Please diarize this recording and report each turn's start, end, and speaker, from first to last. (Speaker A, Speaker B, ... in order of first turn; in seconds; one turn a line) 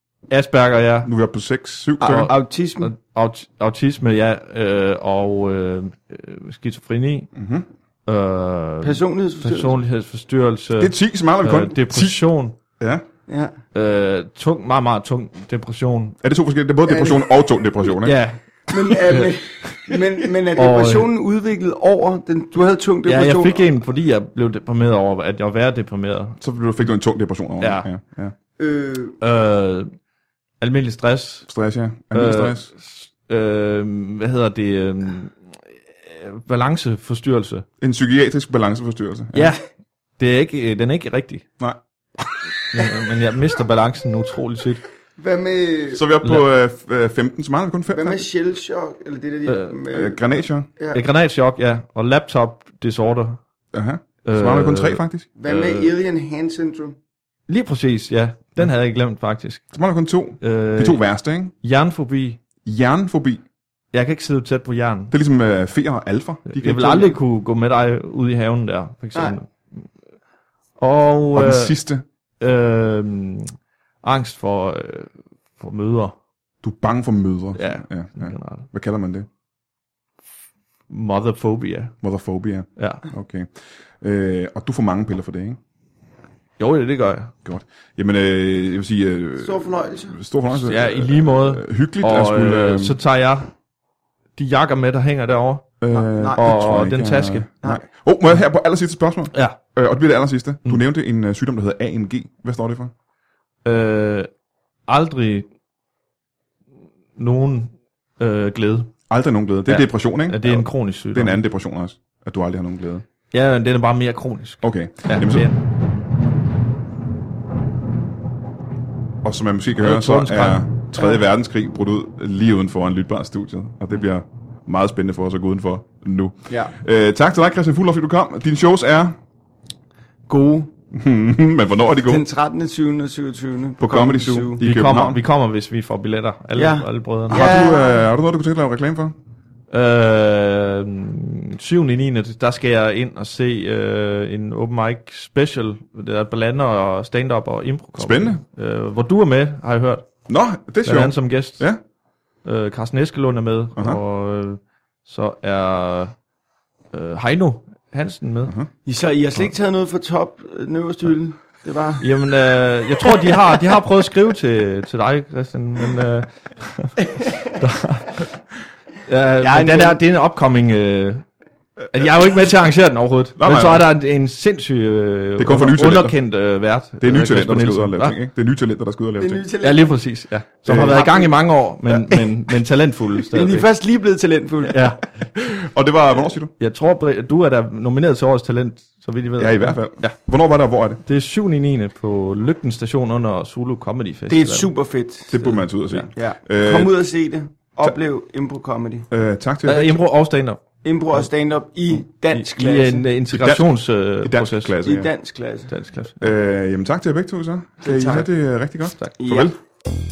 Speaker A: 0.3-1.1
Speaker B: 1.0-2.3
Speaker C: 2.0-2.9
Speaker A: 2.0-7.3
Speaker B: 7.3-7.7
Speaker A: 8.1-12.6
Speaker C: 8.8-9.8
Speaker B: 10.8-12.2
Speaker B: 12.8-13.1
Speaker C: 13.3-13.6
Speaker A: 13.7-16.2
Speaker B: 16.2-18.2
Speaker C: 16.9-17.2
Speaker A: 17.9-19.3
Speaker C: 18.7-23.7
Speaker A: 20.5-21.1
Speaker A: 23.1-26.4
Speaker B: 26.4-28.3
Speaker C: 28.6-29.2
Speaker A: 29.2-29.9
Speaker A: 30.6-31.5
Speaker B: 31.5-32.7
Speaker A: 32.1-37.7
Speaker B: 37.8-39.5
Speaker A: 39.3-39.6
Speaker A: 40.2-41.5
Speaker A: 42.7-44.8
Speaker C: 45.2-46.0
Speaker B: 45.9-48.2
Speaker C: 47.9-51.0
Speaker A: 49.5-49.8
Speaker B: 49.9-50.7
Speaker A: 50.9-53.4
Speaker B: 53.7-55.3
Speaker A: 54.2-55.9
Speaker C: 55.4-57.0
Speaker A: 57.5-59.7
Speaker B: 59.7-61.5
Speaker A: 60.4-61.0
Speaker A: 61.6-62.4
Speaker B: 62.6-63.4
Speaker A: 63.9-65.1
Speaker B: 65.1-67.2
Speaker A: 66.5-69.9
Speaker A: 70.8-71.8
Speaker B: 71.3-72.0
Speaker A: 72.4-76.2
Speaker B: 76.6-79.3
Speaker A: 77.5-78.7
Speaker A: 80.9-82.0
Speaker B: 82.0-85.6
Speaker A: 82.8-83.1
Speaker A: 86.6-87.3
Speaker B: 87.5-93.0
Speaker C: 89.4-90.2
Speaker A: 90.5-93.5
Speaker A: 94.4-95.8
Speaker B: 95.8-102.9
Speaker C: 95.9-96.5
Speaker A: 96.4-97.5
Speaker A: 103.7-104.3
Speaker A: 104.9-105.5
Speaker A: 107.2-108.9
Speaker B: 109.1-113.0
Speaker A: 109.7-111.4
Speaker A: 113.3-115.6
Speaker B: 114.6-115.5
Speaker B: 119.2-129.2
Speaker A: 119.8-121.2
Speaker C: 130.3-130.7
Speaker B: 130.9-132.2
Speaker C: 132.1-134.6
Speaker B: 133.8-135.2
Speaker A: 134.6-137.8
Speaker C: 136.6-138.0
Speaker B: 137.3-139.2
Speaker A: 139.7-150.1
Speaker B: 148.0-148.4
Speaker B: 150.3-151.8
Speaker A: 150.8-151.7
Speaker A: 152.4-156.1
Speaker B: 153.8-154.0
Speaker A: 156.9-158.5
Speaker C: 158.8-162.1
Speaker A: 162.0-168.3
Speaker A: 169.1-171.3
Speaker C: 169.4-170.0
Speaker A: 171.9-178.2
Speaker B: 173.4-173.9
Speaker B: 175.4-176.2
Speaker B: 177.0-179.4
Speaker C: 179.2-180.0
Speaker A: 179.6-183.7
Speaker B: 180.7-181.0
Speaker C: 180.9-182.3
Speaker C: 183.2-184.9
Speaker A: 184.7-185.0
Speaker B: 185.4-186.5
Speaker A: 186.6-190.1
Speaker B: 189.4-191.0
Speaker A: 191.0-194.7
Speaker C: 194.3-199.1
Speaker B: 195.3-196.9
Speaker B: 199.1-200.0
Speaker A: 199.6-200.6
Speaker C: 200.8-203.1
Speaker A: 202.3-204.8
Speaker B: 203.3-203.7
Speaker B: 204.2-205.1
Speaker C: 204.8-205.7
Speaker A: 205.7-206.3
Speaker B: 206.2-209.6
Speaker C: 207.8-208.3
Speaker A: 208.9-209.2
Speaker C: 209.2-209.5